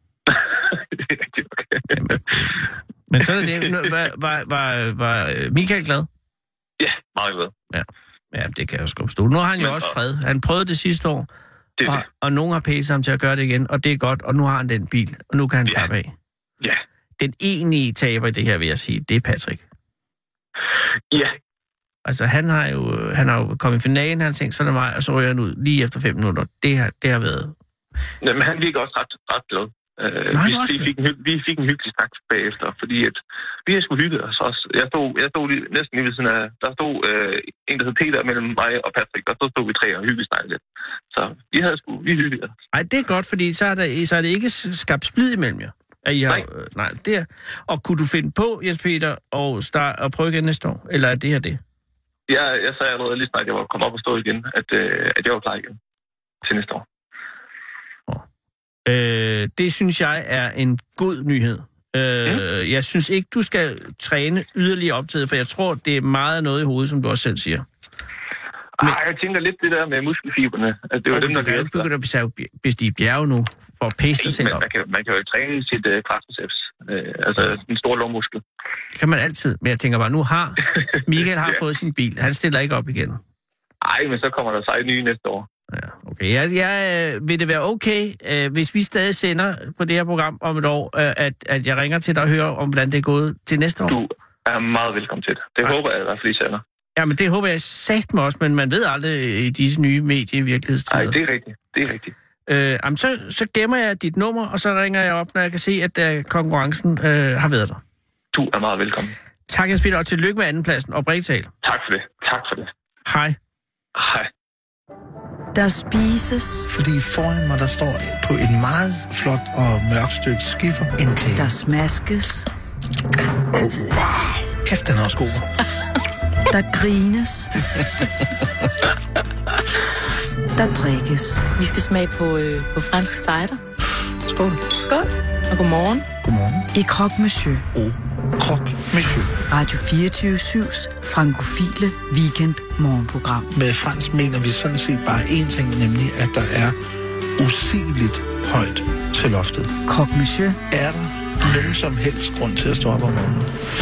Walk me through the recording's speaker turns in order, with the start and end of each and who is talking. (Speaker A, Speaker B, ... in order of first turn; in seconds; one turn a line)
Speaker A: 0.3-2.3
Speaker B: 1.9-6.1
Speaker A: 3.2-4.0
Speaker A: 6.8-7.5
Speaker B: 7.7-11.3
Speaker A: 9.6-9.9
Speaker A: 11.8-12.0
Speaker B: 11.8-16.1
Speaker B: 17.2-19.6
Speaker A: 21.1-21.4
Speaker B: 22.0-27.5
Speaker A: 28.2-42.5
Speaker B: 30.3-30.9
Speaker B: 42.7-51.6
Speaker A: 52.3-55.8
Speaker A: 56.4-56.8
Speaker B: 58.9-67.6
Speaker A: 68.8-71.9
Speaker B: 71.1-74.7
Speaker A: 74.2-78.4
Speaker B: 78.9-83.2
Speaker A: 80.7-81.6
Speaker A: 83.8-85.5
Speaker B: 85.7-94.0
Speaker A: 93.9-96.6
Speaker B: 97.0-101.2
Speaker A: 100.9-102.1
Speaker B: 102.5-107.8
Speaker A: 108.3-109.1
Speaker B: 109.5-111.5
Speaker A: 111.6-112.7
Speaker B: 113.0-113.3
Speaker A: 113.9-114.3
Speaker C: 115.5-116.7
Speaker D: 116.7-121.5
Speaker C: 121.3-122.5
Speaker D: 123.7-125.5
Speaker C: 126.5-127.5
Speaker C: 130.6-131.5
Speaker E: 131.6-133.6
Speaker D: 134.2-134.8
Speaker E: 134.9-136.1
Speaker D: 136.2-136.7
Speaker C: 136.7-137.7
Speaker D: 137.7-139.3
Speaker C: 139.5-143.5
Speaker D: 143.5-146.8
Speaker D: 147.4-149.7
Speaker C: 149.8-150.6
Speaker D: 150.7-153.5